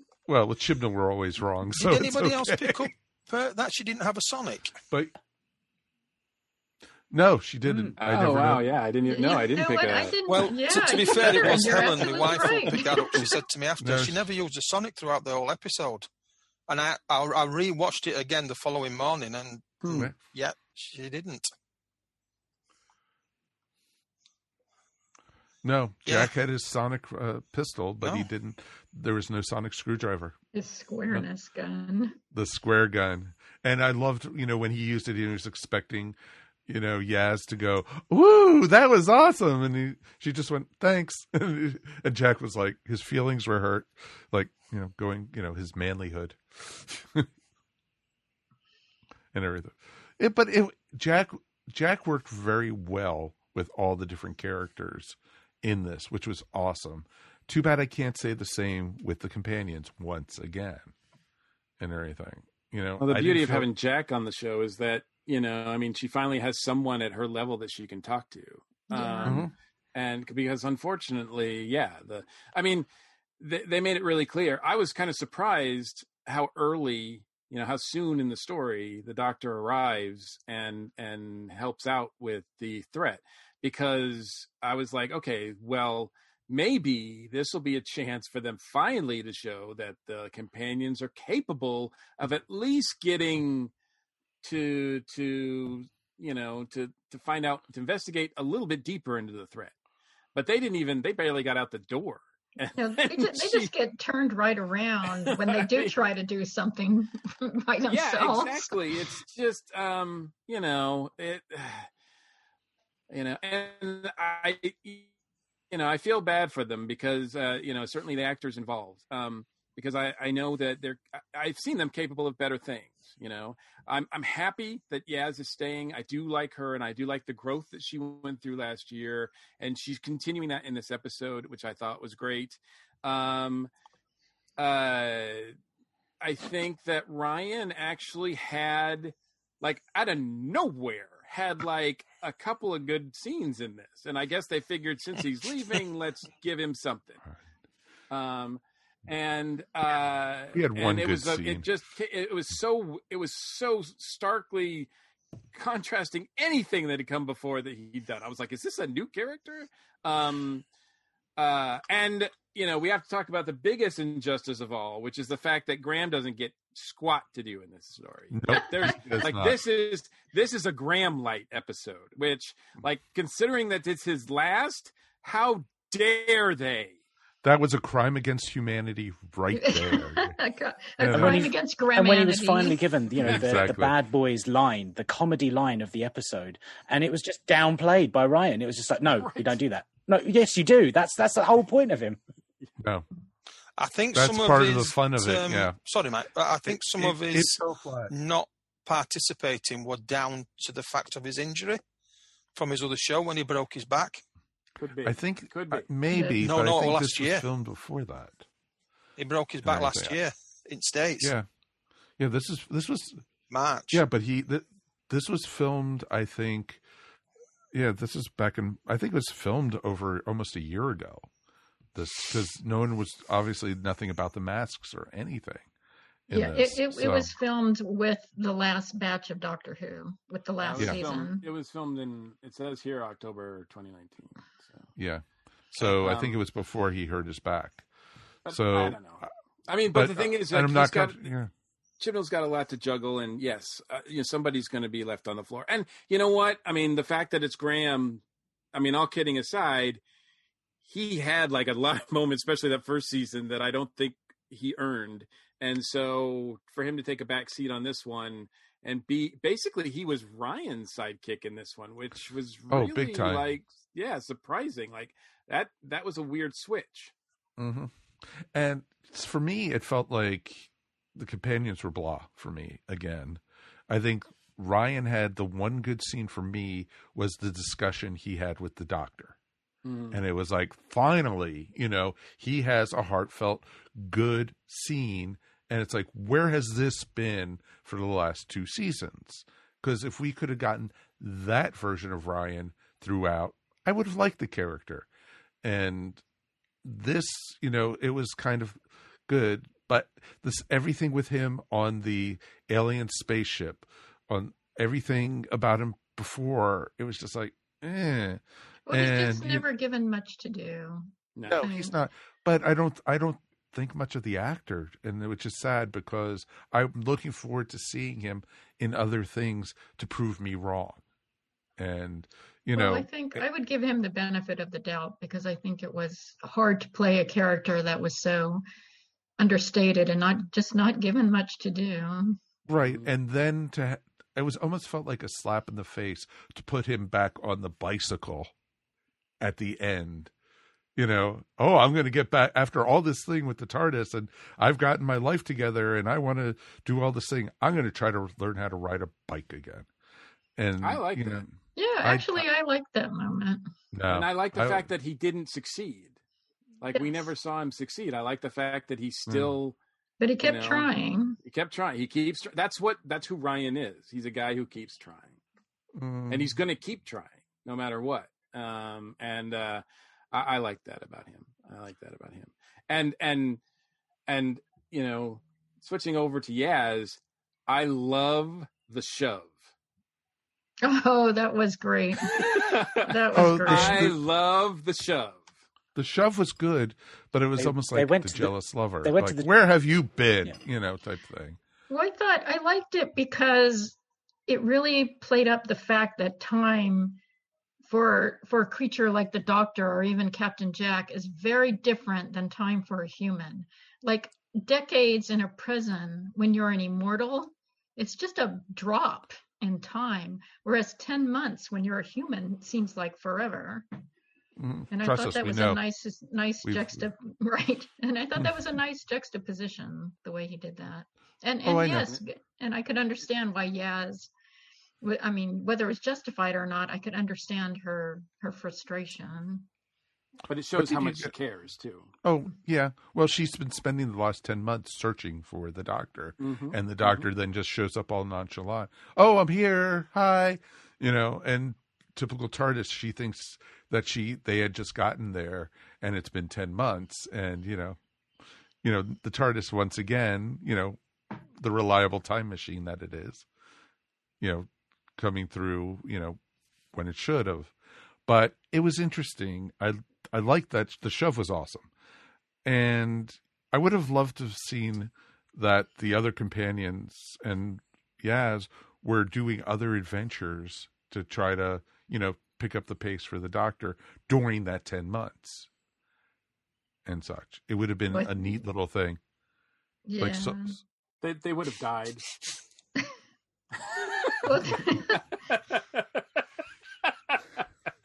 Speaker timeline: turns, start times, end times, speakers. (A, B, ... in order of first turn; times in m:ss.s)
0:00.2-0:02.9 A
0:01.8-0:04.7 B
0:07.1-0:08.7 A
0:07.6-0:08.2 C
0:08.0-0:10.2 D
0:09.0-0:13.0 E
0:10.2-0:16.1 B
0:13.8-0:14.2 A
0:16.7-0:21.5 B
0:19.8-0:20.1 D
0:25.6-0:30.4 A
0:26.0-0:26.3 B
0:30.5-0:32.2 E
0:32.3-0:47.3 A
0:49.3-1:00.9 A
1:01.8-1:03.7 A
1:03.0-1:12.9 D
1:08.9-1:09.4 E
1:09.2-1:09.5 A
1:13.4-1:33.7 D
1:34.4-1:39.7 D
1:40.3-1:43.7 D
1:42.7-1:48.8 E
1:45.3-1:45.9 D
1:47.9-1:51.9 D
1:53.1-1:55.1 D
1:55.7-2:13.7 D
2:14.6-2:15.6 D
2:16.2-2:27.2 D
2:28.1-2:34.9 D
2:30.5-2:31.7 A
2:35.5-2:40.6 D
2:41.4-2:57.0 D
2:48.3-2:49.6 A
2:57.4-3:00.4 A
2:59.5-3:02.8 E
3:01.0-3:01.5 A
3:01.1-3:12.2 C
3:03.2-3:04.0 A
3:03.2-3:03.5 D
3:09.0-3:09.6 D
3:12.8-3:13.0 A
3:13.8-3:17.5 B
3:14.1-3:15.8 A
3:16.7-3:18.1 A
3:18.1-3:21.8 B
3:22.5-3:24.2 B
3:24.8-3:25.8 D
3:25.0-3:28.4 A
3:26.1-3:26.4 E
3:26.4-3:27.4 B
3:29.2-3:31.3 B
3:29.6-3:30.2 A
3:31.2-3:31.4 A
3:32.2-3:33.2 A
3:33.5-3:34.0 B
3:33.9-3:36.8 A
3:37.7-3:41.3 A
3:41.9-3:45.7 A
3:46.3-3:47.3 A
3:46.3-3:51.4 E
3:50.6-3:54.9 D
3:50.8-3:51.0 A
3:55.0-3:57.8 A
3:55.8-3:56.4 D
3:58.4-4:01.3 D
3:58.5-3:59.3 A
3:59.9-4:01.5 A
4:02.0-4:08.2 D
4:08.7-4:10.0 D
4:10.8-4:27.1 D
4:22.7-4:23.5 A
4:27.6-4:39.4 A
4:39.8-4:40.2 D
4:40.1-4:55.1 A
4:55.6-4:56.2 A
4:56.8-5:09.6 A
5:08.9-5:11.1 E
5:11.4-5:11.6 D
5:11.5-5:21.0 A
5:11.6-5:12.0 E
5:21.8-5:23.4 A
5:22.7-5:28.6 E
5:29.4-5:32.4 E
5:32.7-5:38.5 A
5:32.8-5:33.1 D
5:39.4-5:40.3 A
5:41.0-5:49.9 A
5:50.6-5:52.4 A
5:50.8-5:51.4 D
5:51.8-5:53.7 E
5:53.9-5:54.9 A
5:54.1-5:56.2 D
5:56.8-5:59.8 D
5:56.9-5:57.3 E
5:59.3-5:59.6 A
6:00.2-6:01.4 E
6:00.4-6:00.9 D
6:01.4-6:05.4 D
6:05.9-6:06.6 A
6:06.3-6:13.6 D
6:14.3-6:19.6 D
6:20.8-6:24.0 E
6:22.4-6:25.5 D
6:23.3-6:24.2 A
6:25.9-6:31.6 A
6:27.6-6:29.5 C
6:31.9-6:34.0 E
6:34.5-6:37.2 E
6:37.8-6:53.8 E
6:54.6-6:55.8 A
6:54.9-7:04.3 E
6:56.6-6:57.0 A
7:01.6-7:02.2 A
7:05.0-7:09.7 E
7:10.5-7:12.1 D
7:10.8-7:11.3 A
7:12.2-7:28.0 A
7:16.4-7:17.3 D
7:28.8-7:31.0 A
7:31.6-7:33.4 A
7:34.4-7:36.4 A
7:36.9-7:37.7 A
7:38.3-7:41.9 A
7:42.6-7:55.7 A
7:57.0-7:59.2 A
7:58.1-7:58.6 E
8:00.0-8:00.8 E
8:00.2-8:00.8 A
8:01.2-8:02.2 D
8:03.9-8:04.4 D
8:04.4-8:05.2 E
8:05.5-8:06.0 D